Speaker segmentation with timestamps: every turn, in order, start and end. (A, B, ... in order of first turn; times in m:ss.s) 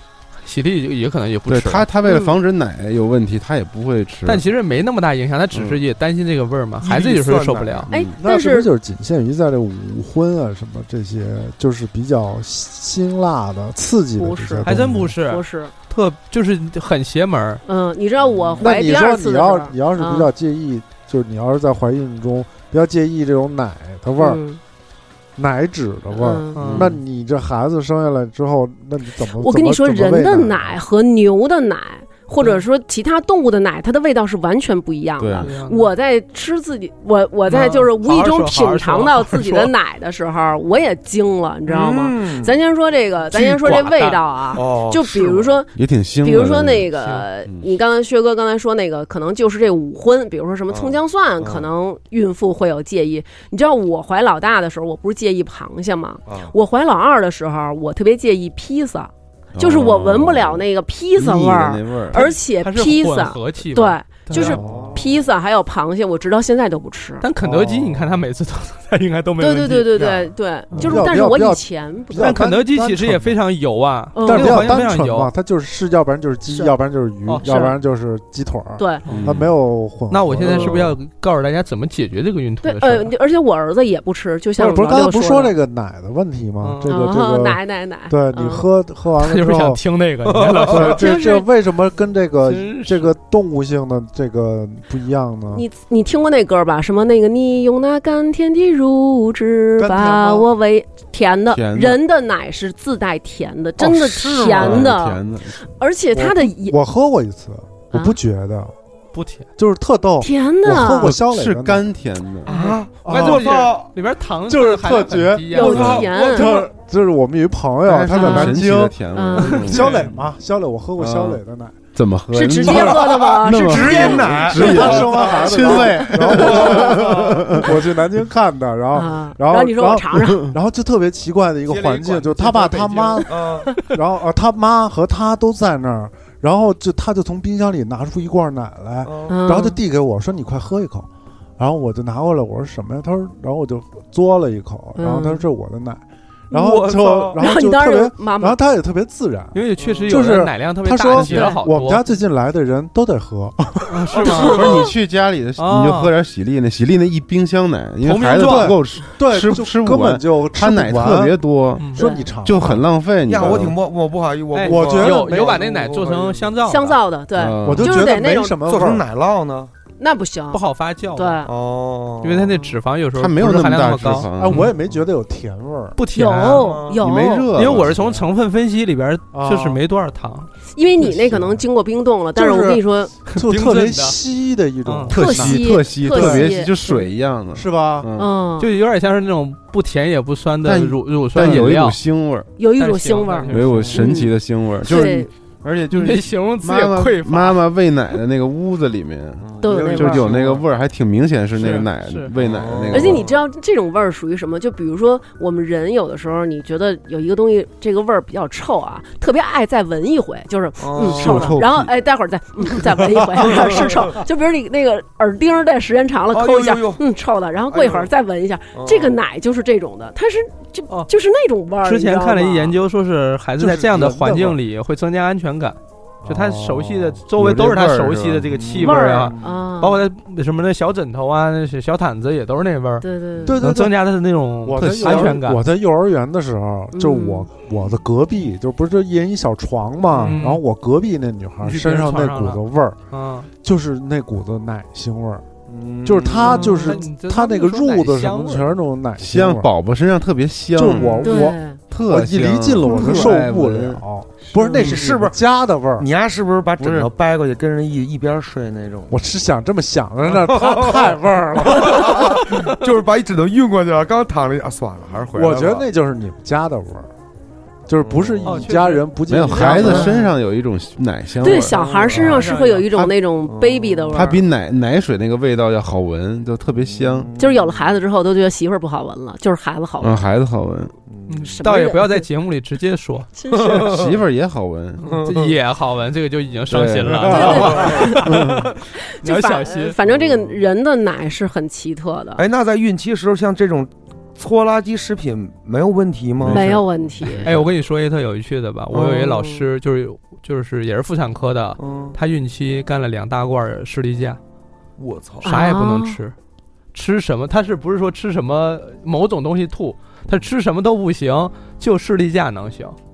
0:00.4-0:01.8 A
0:01.5-0:04.4 B
0:02.0-0:02.4 C
0:04.2-0:07.9 A
0:05.5-0:05.8 B
0:06.8-0:07.9 D
0:07.9-0:08.1 B
0:07.9-0:08.7 C
0:08.2-0:15.2 E
0:14.2-0:15.7 C
0:14.6-0:17.6 A
0:17.6-0:20.3 C
0:18.3-0:18.6 D
0:18.6-0:24.4 E
0:24.2-0:24.6 C
0:25.4-0:30.8 E
0:26.1-0:26.6 C
0:26.5-0:27.0 A
0:26.6-0:27.0 B
0:29.4-1:07.2 C
0:35.2-0:35.5 B
0:35.4-0:35.9 A
0:37.5-0:39.7 A
0:41.7-0:42.5 D
0:43.3-0:44.2 A
0:44.5-0:45.6 D
0:45.7-0:46.9 B
0:47.0-0:47.2 A
0:50.7-0:51.7 D
0:56.2-0:56.5 D
0:59.5-1:02.3 B
1:02.1-1:04.6 A
1:04.4-1:05.0 D
1:04.4-1:05.0 E
1:07.2-1:10.0 A
1:07.4-1:08.0 E
1:09.4-1:12.4 C
1:10.0-1:10.2 D
1:10.7-1:13.3 E
1:12.2-1:15.3 A
1:14.1-1:14.8 C
1:14.2-1:20.9 E
1:17.4-1:17.7 C
1:18.8-1:19.0 C
1:19.1-1:19.5 B
1:20.1-1:23.1 A
1:20.5-1:20.9 B
1:22.6-1:25.5 C
1:24.6-1:29.8 E
1:26.6-1:26.9 A
1:26.8-1:28.7 C
1:29.2-1:31.1 A
1:30.2-1:31.0 D
1:30.7-1:35.6 E
1:30.8-1:31.5 C
1:32.4-1:33.1 A
1:35.5-1:46.8 C
1:39.8-1:40.5 E
1:41.5-1:42.0 B
1:43.8-1:44.8 E
1:44.2-1:45.5 B
1:46.1-1:48.7 E
1:47.9-1:48.2 C
1:49.1-1:49.5 A
1:49.6-1:51.8 E
1:50.2-1:51.1 C
1:51.0-1:52.5 B
1:52.4-1:53.9 D
1:52.6-1:53.6 E
1:53.0-1:56.0 A
1:54.5-2:01.8 E
1:55.5-1:56.5 C
1:55.7-1:56.5 D
1:57.8-2:00.1 B
1:58.1-1:58.5 C
1:59.1-1:59.7 C
1:59.6-2:00.1 A
2:01.0-2:01.4 B
2:01.9-2:07.8 B
2:02.3-2:04.3 C
2:03.5-2:07.4 D
2:04.4-2:33.8 E
2:08.9-2:10.4 C
2:11.7-2:13.2 A
2:13.3-2:13.8 D
2:19.0-2:19.4 D
2:19.3-2:19.8 C
2:25.0-2:25.4 C
2:26.5-2:27.4 D
2:27.3-2:28.6 C
2:29.5-2:32.0 A
2:29.8-2:30.2 D
2:31.3-2:31.6 C
2:33.9-2:34.8 A
2:34.2-2:34.8 C
2:34.2-2:34.7 D
2:34.2-2:41.8 B
2:35.6-2:36.1 A
2:38.0-2:38.8 A
2:38.3-2:41.4 E
2:41.8-2:42.0 A
2:41.9-2:42.8 E
2:42.0-2:42.3 C
2:42.4-2:43.8 B
2:43.3-2:46.5 D
2:43.4-2:43.7 E
2:44.5-2:47.0 A
2:44.6-2:45.7 E
2:46.6-2:48.6 C
2:47.4-2:48.0 B
2:47.6-2:49.0 E
2:48.6-2:49.7 D
2:50.0-2:50.6 C
2:50.5-2:51.4 A
2:51.2-2:51.5 C
2:51.4-2:52.5 D
2:52.2-2:54.7 A
2:53.1-2:54.6 B
2:54.4-2:56.0 E
2:56.0-2:56.8 A
2:56.1-2:57.5 C
2:56.4-2:57.0 D
2:57.0-2:58.0 B
2:57.5-3:00.5 A
2:57.9-2:58.2 D
2:59.3-2:59.8 E
3:00.7-3:03.1 C
3:01.0-3:01.6 E
3:02.3-3:06.6 E
3:03.3-3:04.2 A
3:04.8-3:05.1 A
3:05.1-3:08.3 B
3:05.1-3:06.9 C
3:07.5-3:08.1 E
3:08.2-3:08.7 C
3:08.6-3:12.0 A
3:10.6-3:12.5 B
3:12.6-3:14.3 C
3:12.8-3:13.9 A
3:13.5-3:23.2 B
3:13.7-3:14.0 D
3:14.8-3:15.3 C
3:15.9-3:17.6 A
3:19.4-3:20.6 D
3:19.6-3:20.3 C
3:19.6-3:20.3 E
3:21.5-3:22.3 A
3:22.4-3:23.4 D
3:22.9-3:42.8 C
3:30.8-3:31.6 D
3:31.0-3:31.9 B
3:33.4-3:34.1 D
3:36.3-3:37.0 D
3:37.7-3:38.1 D
3:38.7-3:39.2 D
3:41.8-3:53.0 A
3:43.6-3:44.6 E
3:46.3-3:46.9 E
3:47.4-3:48.5 B
3:48.5-3:49.5 D
3:48.8-3:50.0 C
3:53.0-3:53.6 C
3:53.4-3:53.9 E
3:53.6-3:55.6 A
3:54.6-4:03.0 E
3:54.8-3:55.3 B
3:56.9-3:57.5 C
4:00.2-4:00.6 A
4:01.6-4:03.5 A
4:03.6-4:05.4 E
4:05.7-4:06.9 D
4:06.0-4:09.7 E
4:06.4-4:07.0 C
4:06.9-4:08.8 A
4:09.2-4:11.1 B
4:10.8-4:16.1 E
4:10.9-4:11.4 D
4:11.2-4:11.8 C
4:11.9-4:14.0 B
4:12.8-4:13.3 C
4:14.5-4:14.9 C
4:14.7-4:15.4 D
4:16.0-4:19.2 D
4:16.8-4:17.1 B
4:19.1-4:22.2 E
4:20.3-4:25.9 D
4:22.1-4:22.7 A
4:25.3-4:27.1 E
4:27.9-4:30.1 E
4:28.0-4:28.8 D
4:28.4-4:29.9 A
4:29.3-4:31.8 B
4:29.8-4:30.3 C
4:31.4-4:34.4 C
4:31.4-4:32.5 D
4:32.1-4:32.9 A
4:33.5-4:34.3 D
4:34.1-4:37.3 B
4:36.8-4:38.0 D
4:37.4-4:40.2 C
4:40.0-4:40.9 B
4:41.1-4:41.5 D
4:41.3-4:43.3 A
4:41.5-4:42.3 C
4:43.4-4:43.9 C
4:43.5-4:44.1 D
4:43.7-4:45.1 B
4:45.0-4:50.0 A
4:45.0-4:45.6 D
4:46.7-4:48.7 B
4:47.2-4:48.1 D
4:47.3-4:48.3 C
4:49.0-4:52.4 C
4:50.0-4:50.6 D
4:52.4-4:56.8 D
4:56.4-4:56.8 B
4:56.5-4:57.5 C
4:57.3-4:57.6 D
4:57.4-5:04.4 A
4:58.9-4:59.3 D
4:59.1-4:59.6 C
5:01.8-5:02.2 D
5:05.0-5:05.5 D
5:05.4-5:06.2 C
5:05.4-5:06.3 A
5:06.9-5:13.0 A